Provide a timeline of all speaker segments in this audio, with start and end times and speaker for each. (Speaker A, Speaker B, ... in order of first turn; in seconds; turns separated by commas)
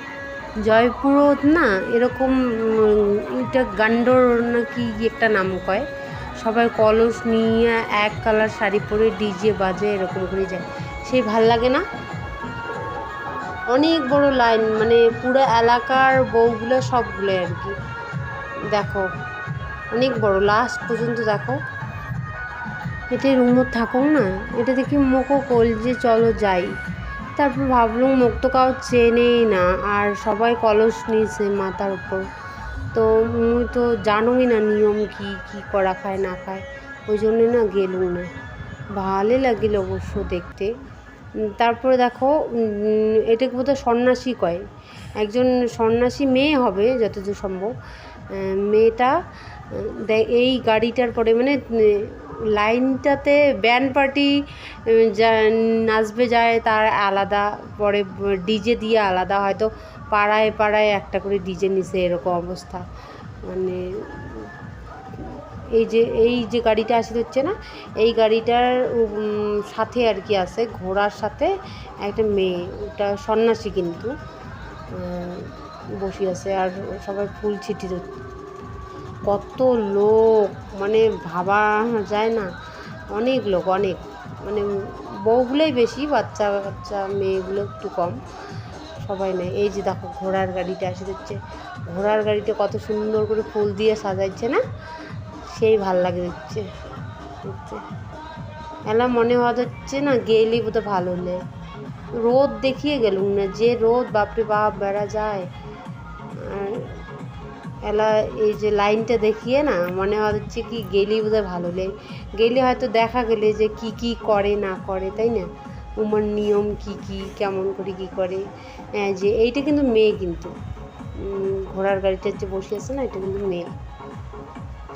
Speaker A: 0.7-5.8, Speaker A: 6.4-11.8, Speaker A: 12.7-17.7, Speaker A: 18.7-19.1, Speaker A: 19.9-21.6, Speaker A: 23.1-26.7, Speaker A: 27.4-32.2, Speaker A: 32.9-38.3, Speaker A: 39.0-40.7, Speaker A: 41.4-44.6, Speaker A: 45.2-47.7, Speaker A: 48.3-49.1, Speaker A: 49.7-54.3, Speaker A: 54.9-62.8, Speaker A: 63.5-64.5, Speaker A: 65.2-71.5, Speaker A: 72.0-74.1, Speaker A: 74.9-78.1, Speaker A: 79.3-82.5, Speaker A: 83.1-88.2, Speaker A: 89.0-94.6, Speaker A: 95.5-96.7, Speaker A: 97.4-97.8, Speaker A: 98.9-101.4, Speaker A: 102.2-105.5, Speaker A: 106.4-107.0, Speaker A: 107.8-118.4, Speaker A: 119.0-120.5, Speaker A: 121.2-123.7